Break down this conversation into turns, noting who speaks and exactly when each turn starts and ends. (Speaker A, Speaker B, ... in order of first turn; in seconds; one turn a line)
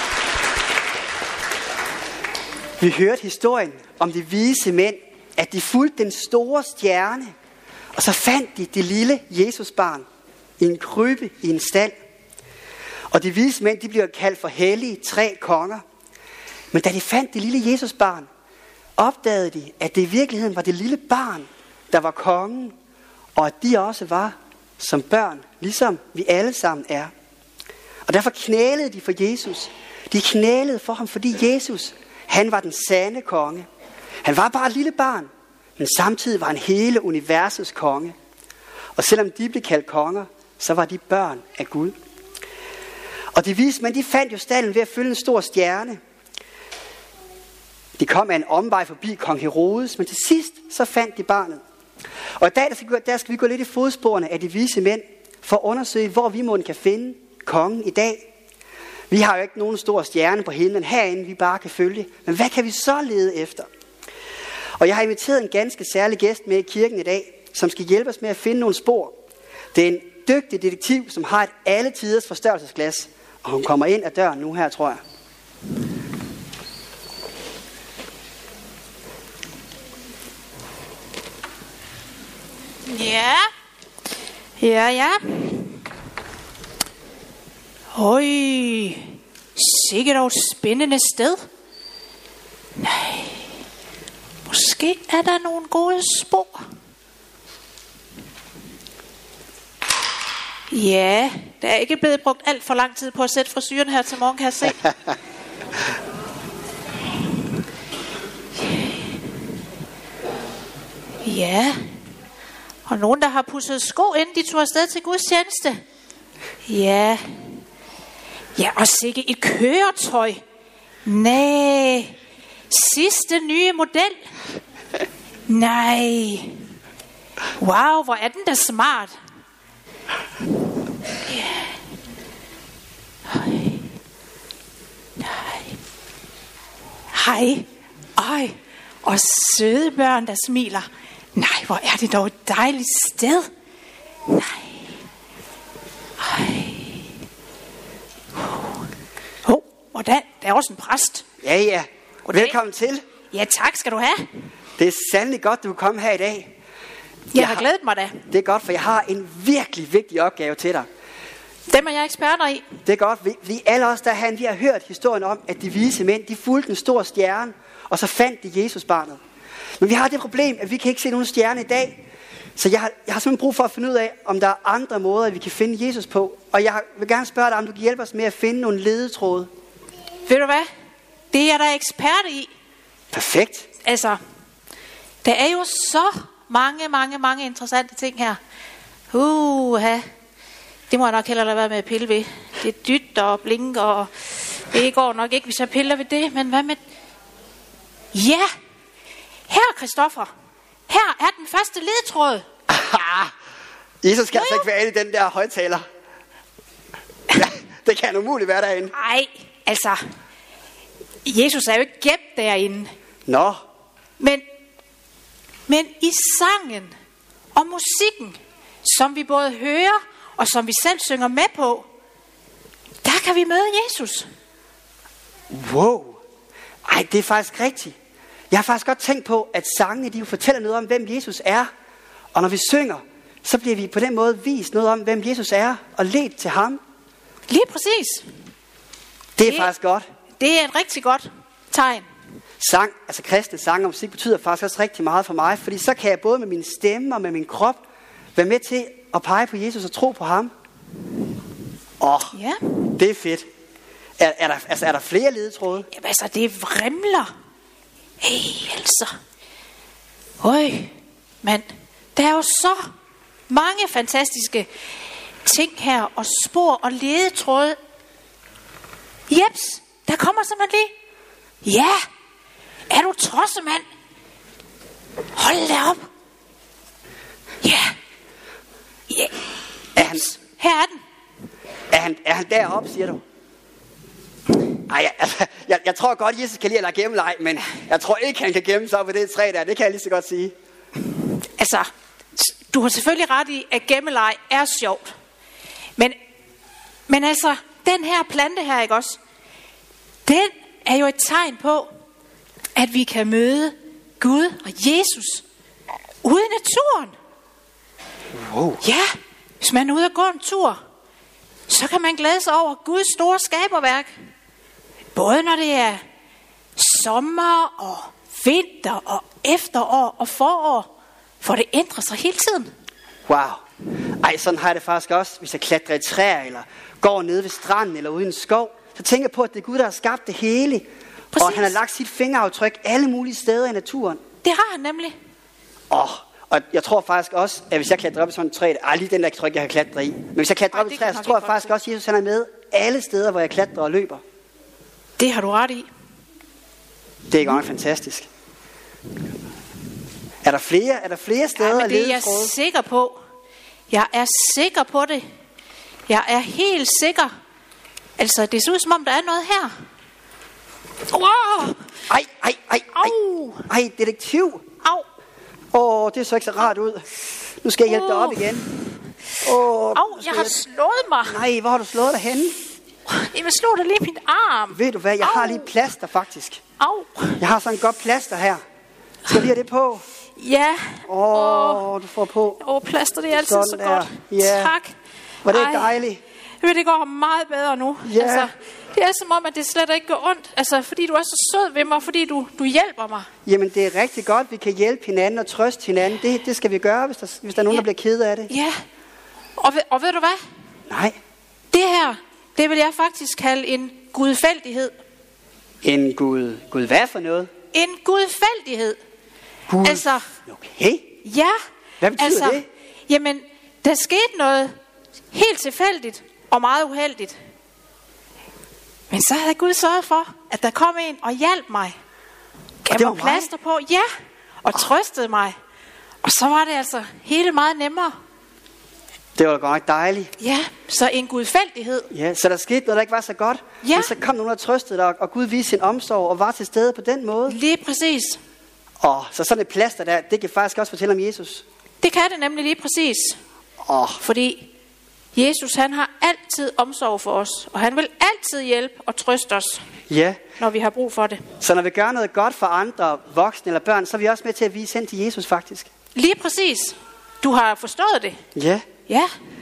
Speaker A: 2.8-7.3
Speaker A: 8.0-10.1
Speaker A: 10.6-11.9
Speaker A: 13.1-15.8
Speaker A: 16.7-18.3
Speaker A: 19.0-22.7
Speaker A: 23.4-27.1
Speaker A: 28.1-33.6
Speaker A: 34.2-38.1
Speaker A: 39.0-42.0
Speaker A: 43.3-46.0
Speaker A: 48.0-51.6
Speaker A: 52.4-58.2
Speaker A: 59.1-63.7
Speaker A: 64.8-69.1
Speaker A: 69.7-75.0
Speaker B: 82.8-83.5
Speaker B: 84.6-85.8
Speaker B: 87.9-91.4
Speaker B: 92.8-93.5
Speaker B: 94.4-96.6
Speaker B: 100.7-104.8
Speaker B: 108.7-109.0
Speaker B: 111.2-111.8
Speaker B: 112.8-115.8
Speaker B: 116.7-117.2
Speaker B: 118.5-120.4
Speaker B: 121.0-122.2
Speaker B: 122.7-124.3
Speaker B: 125.5-126.5
Speaker B: 127.6-129.1
Speaker B: 131.3-131.7
Speaker B: 133.3-133.9
Speaker B: 135.2-135.8
Speaker B: 137.1-143.5
Speaker B: 144.3-144.9
Speaker B: 146.2-147.1
Speaker B: 148.4-148.8
Speaker B: 149.4-151.2
Speaker A: 151.4-153.0
Speaker B: 152.2-152.6
Speaker B: 153.3-154.2
Speaker A: 154.8-156.5
Speaker B: 157.3-158.2
Speaker A: 157.3-157.6
Speaker A: 158.3-160.9
Speaker B: 161.7-162.6
Speaker A: 162.8-169.2
Speaker A: 169.8-172.0
Speaker A: 172.6-179.5
Speaker B: 180.2-180.7
Speaker B: 181.3-182.5
Speaker A: 183.1-183.7
Speaker B: 183.8-184.2
Speaker B: 185.2-188.4
Speaker B: 189.1-190.0
Speaker B: 190.9-196.8
Speaker B: 198.1-198.5
Speaker B: 199.5-200.3
Speaker B: 200.9-202.4
Speaker A: 202.7-203.3
Speaker A: 204.0-205.8
Speaker B: 204.3-204.7
Speaker A: 207.3-208.9
Speaker B: 208.9-210.0
Speaker B: 211.2-212.9
Speaker A: 213.3-213.6
Speaker B: 214.2-214.4
Speaker B: 215.7-216.9
Speaker B: 217.5-221.9
Speaker B: 223.0-224.2
Speaker A: 225.5-226.2
Speaker A: 226.8-227.9
Speaker A: 228.5-231.7
Speaker A: 232.3-236.8
Speaker B: 237.5-238.2
Speaker A: 239.4-240.0
Speaker B: 239.4-239.7
Speaker B: 240.4-242.1
Speaker A: 242.6-247.8
Speaker A: 248.3-250.5
Speaker A: 252.0-252.3
Speaker B: 252.3-252.7
Speaker A: 252.9-253.4
Speaker A: 254.2-255.9
Speaker B: 255.9-257.3
Speaker B: 258.2-259.1
Speaker B: 260.4-262.8
Speaker B: 263.5-264.7
Speaker B: 265.4-267.8
Speaker B: 269.3-270.9
Speaker B: 271.6-272.0
Speaker B: 272.9-273.8
Speaker B: 275.3-276.0
Speaker B: 277.6-277.9
Speaker B: 279.1-279.4
Speaker A: 279.9-280.2
Speaker B: 279.9-281.0
Speaker A: 281.9-283.2
Speaker A: 284.9-290.5
Speaker B: 291.6-295.1
Speaker B: 297.1-299.2
Speaker B: 300.2-301.9
Speaker B: 302.8-305.4
Speaker B: 306.2-307.1
Speaker A: 308.3-308.8
Speaker B: 308.8-309.1
Speaker B: 309.6-310.8
Speaker B: 311.7-314.1
Speaker B: 315.1-316.0
Speaker B: 316.8-320.9
Speaker B: 321.4-322.7
Speaker A: 323.3-323.6
Speaker A: 324.2-334.2
Speaker B: 331.3-331.8
Speaker B: 334.4-335.2
Speaker A: 335.9-344.2
Speaker B: 340.7-341.7
Speaker B: 345.2-345.9
Speaker A: 347.3-348.3
Speaker A: 350.4-352.5
Speaker B: 351.6-353.1
Speaker B: 353.9-355.2
Speaker B: 356.1-357.3
Speaker B: 358.2-359.7
Speaker B: 361.1-361.7
Speaker A: 362.1-363.1
Speaker B: 362.9-363.7
Speaker A: 363.7-364.6
Speaker A: 365.7-367.1
Speaker A: 367.6-368.6
Speaker B: 367.9-368.7
Speaker A: 369.4-370.6
Speaker B: 369.9-371.4
Speaker A: 371.2-372.5
Speaker B: 373.1-375.7
Speaker A: 374.7-376.6
Speaker B: 376.8-377.4
Speaker A: 377.4-378.6
Speaker A: 379.2-380.0
Speaker B: 380.4-381.9
Speaker A: 381.1-382.6
Speaker B: 382.6-384.9
Speaker A: 383.3-384.7
Speaker A: 385.4-386.2
Speaker B: 385.5-386.0
Speaker B: 386.6-393.3
Speaker A: 388.0-388.5
Speaker A: 393.4-398.5
Speaker B: 398.5-398.8
Speaker B: 399.6-400.4
Speaker A: 400.9-401.1
Speaker B: 401.7-404.9
Speaker A: 405.8-407.5
Speaker B: 407.7-409.0
Speaker A: 409.7-411.1
Speaker B: 409.8-410.2
Speaker B: 411.2-411.5
Speaker A: 412.0-412.6
Speaker B: 412.2-414.7
Speaker B: 415.3-417.4
Speaker B: 419.1-421.9
Speaker B: 422.8-424.1
Speaker A: 422.9-423.5
Speaker B: 424.6-425.5
Speaker B: 426.2-428.1
Speaker A: 429.4-430.3
Speaker B: 430.4-432.1
Speaker A: 432.1-437.6
Speaker B: 433.8-434.1
Speaker B: 437.5-438.4
Speaker A: 439.0-441.6
Speaker B: 442.0-443.4
Speaker A: 443.8-444.2
Speaker B: 444.2-444.7
Speaker B: 445.3-449.8
Speaker A: 450.1-450.4
Speaker B: 450.6-451.4
Speaker A: 451.6-455.9
Speaker B: 456.1-458.4
Speaker A: 458.5-458.8